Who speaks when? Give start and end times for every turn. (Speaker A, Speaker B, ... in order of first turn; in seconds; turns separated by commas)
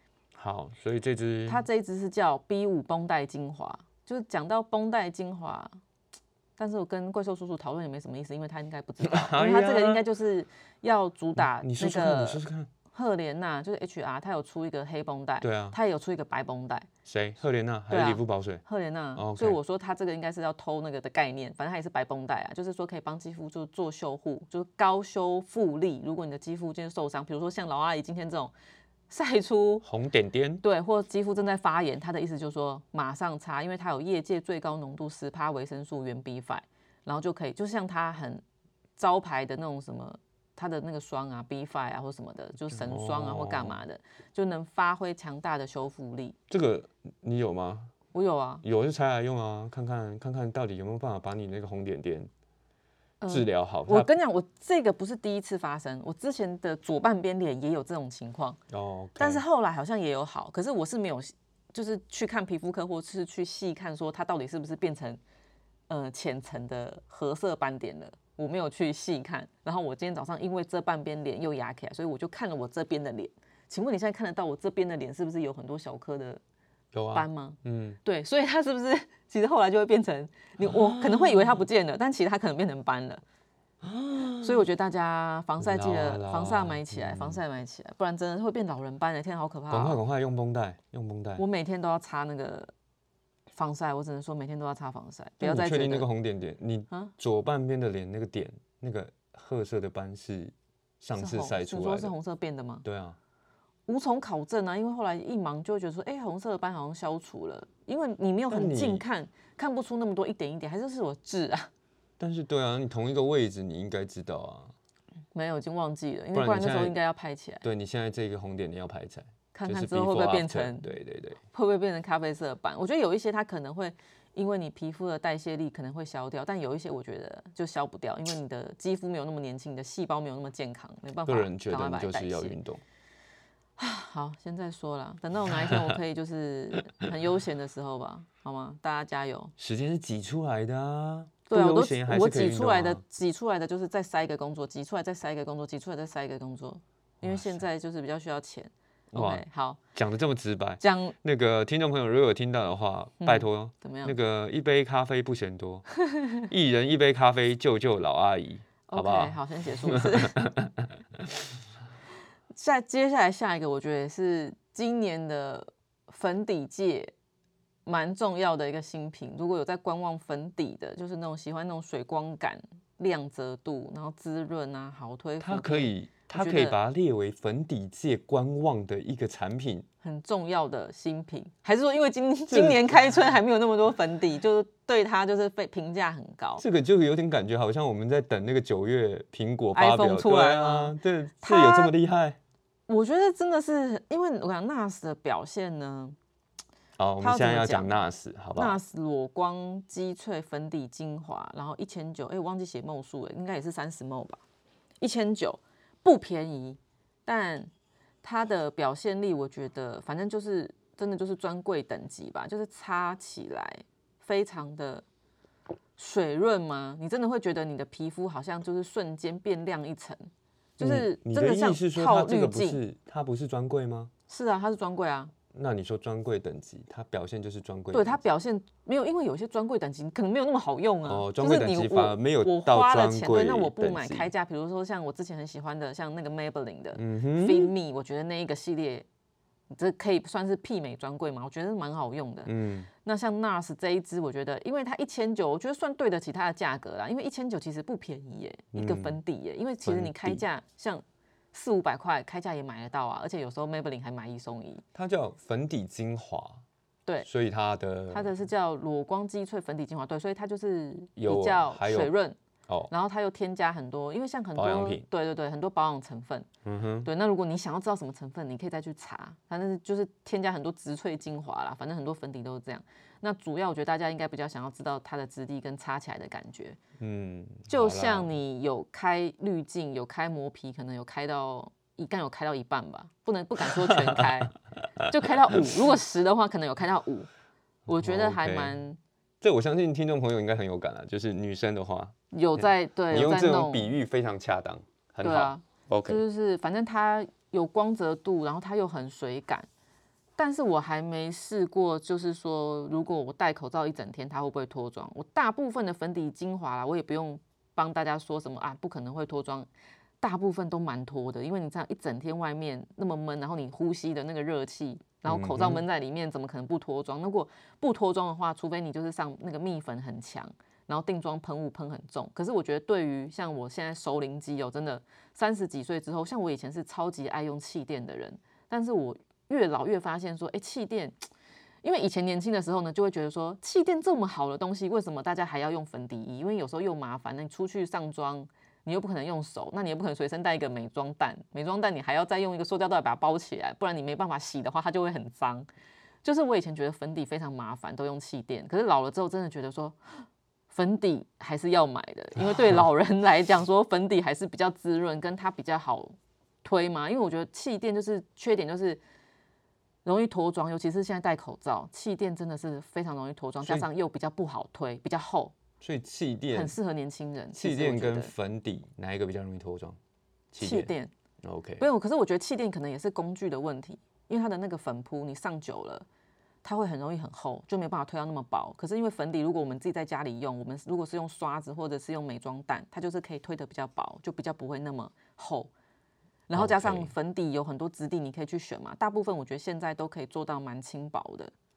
Speaker A: 0.3-1.6, Speaker B: 1.5-5.8, Speaker B: 6.6-16.9, Speaker A: 9.0-10.0, Speaker A: 11.4-12.7, Speaker A: 15.4-15.8, Speaker A: 17.0-18.6, Speaker B: 17.9-28.5, Speaker A: 19.1-19.6, Speaker B: 29.1-29.8, Speaker A: 29.8-30.6, Speaker B: 30.6-38.4, Speaker B: 39.0-46.4, Speaker A: 42.7-43.8, Speaker A: 46.5-47.9, Speaker B: 48.1-48.6, Speaker A: 48.6-52.3, Speaker B: 53.2-58.6, Speaker A: 53.3-54.1, Speaker A: 58.7-59.4, Speaker B: 59.2-65.2, Speaker B: 65.9-76.4, Speaker A: 76.9-78.0, Speaker B: 77.1-83.2, Speaker A: 80.6-81.6, Speaker A: 83.8-84.6, Speaker B: 84.4-90.0, Speaker A: 85.6-87.4, Speaker A: 89.7-91.4, Speaker B: 91.4-92.7, Speaker B: 93.5-96.1, Speaker A: 95.4-102.1, Speaker B: 101.2-102.8, Speaker A: 102.8-103.2, Speaker B: 103.9-111.7, Speaker A: 108.5-109.0, Speaker A: 112.2-114.7, Speaker B: 115.3-117.6, Speaker A: 116.3-117.0, Speaker A: 117.6-121.4, Speaker B: 119.5-120.9, Speaker B: 121.5-132.6, Speaker A: 131.2-132.8, Speaker B: 133.8-139.5, Speaker A: 139.6-143.0, Speaker B: 141.5-149.8, Speaker A: 147.2-147.6, Speaker A: 149.1-149.4, Speaker A: 149.9-161.3, Speaker B: 150.8-151.2, Speaker B: 153.2-154.2, Speaker B: 158.9-160.5, Speaker B: 162.5-167.1, Speaker B: 167.8-176.8, Speaker A: 175.4-179.8, Speaker B: 180.0-186.6, Speaker A: 182.5-183.2, Speaker A: 186.6-192.4, Speaker B: 189.7-191.9, Speaker B: 192.9-196.2, Speaker A: 197.0-198.8, Speaker B: 197.2-197.9, Speaker B: 198.6-204.4, Speaker B: 205.0-207.7, Speaker B: 208.2-215.0, Speaker B: 216.0-222.8, Speaker A: 220.8-224.1, Speaker B: 224.3-225.3, Speaker A: 225.5-228.2, Speaker B: 227.9-239.1, Speaker A: 231.0-234.3, Speaker A: 236.9-237.7, Speaker B: 239.7-254.8, Speaker A: 242.4-242.9, Speaker A: 248.7-249.2, Speaker A: 249.8-250.4, Speaker A: 254.9-256.6, Speaker A: 257.2-258.3, Speaker B: 258.1-262.4, Speaker A: 261.2-262.1, Speaker B: 262.9-266.5, Speaker A: 264.6-265.0, Speaker A: 266.6-267.1, Speaker B: 267.0-276.8, Speaker A: 277.0-278.3, Speaker B: 277.7-284.5, Speaker A: 283.6-284.3, Speaker A: 285.0-285.7, Speaker B: 285.1-287.3, Speaker B: 287.9-289.0, Speaker A: 287.9-288.8, Speaker A: 289.4-292.1, Speaker B: 292.3-293.9, Speaker A: 293.1-296.2, Speaker B: 295.2-299.7, Speaker B: 300.4-309.7, Speaker B: 310.2-331.2, Speaker A: 315.2-315.8, Speaker B: 331.8-345.7, Speaker B: 346.2-359.0, Speaker B: 360.0-365.6, Speaker A: 363.6-363.9, Speaker A: 365.8-366.8, Speaker B: 366.5-368.3, Speaker A: 367.5-370.0, Speaker A: 370.5-371.8, Speaker B: 370.6-371.1, Speaker B: 371.8-376.1, Speaker B: 376.6-385.7, Speaker B: 386.5-391.5, Speaker A: 386.5-387.1